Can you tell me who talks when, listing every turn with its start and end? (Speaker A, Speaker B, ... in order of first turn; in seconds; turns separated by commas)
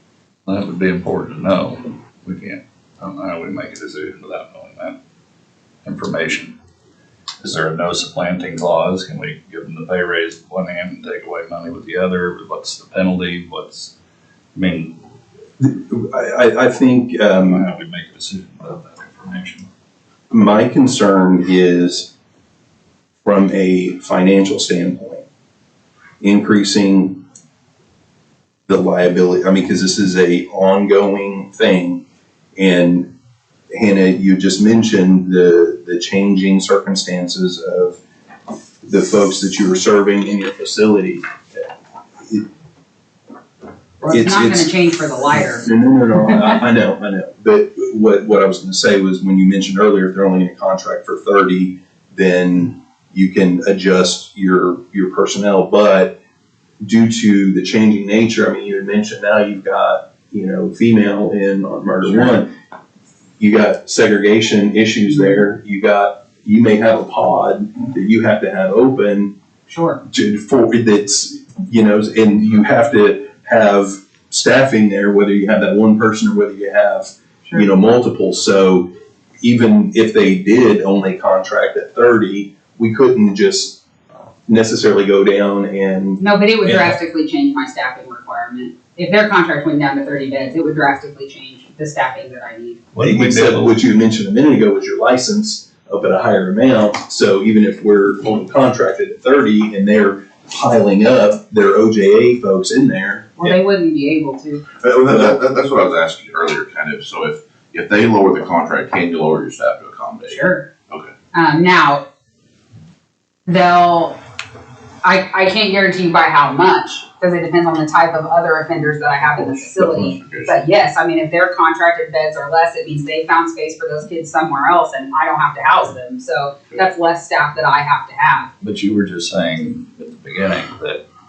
Speaker A: 0.5-4.9, Speaker A: 5.8-6.5, Speaker A: 7.4-13.9, Speaker A: 14.5-14.9, Speaker B: 15.6-17.6, Speaker A: 17.3-19.7, Speaker B: 20.3-22.1, Speaker B: 23.2-25.2, Speaker B: 26.2-27.2, Speaker B: 28.7-32.0, Speaker B: 32.5-33.1, Speaker B: 33.7-38.0, Speaker B: 38.8-41.6, Speaker C: 44.0-45.7, Speaker B: 44.1-44.7, Speaker B: 45.3-56.1, Speaker B: 56.8-62.5, Speaker B: 63.4-69.3, Speaker C: 69.7-70.0, Speaker B: 70.1-78.9, Speaker B: 79.4-83.8, Speaker B: 84.5-87.0, Speaker C: 86.2-92.8, Speaker B: 93.0-103.5, Speaker C: 103.4-104.6, Speaker D: 104.9-110.4, Speaker C: 110.3-110.7, Speaker C: 111.3-112.0, Speaker C: 113.5-114.2, Speaker C: 115.0-128.5, Speaker D: 120.0-120.6, Speaker A: 128.6-131.0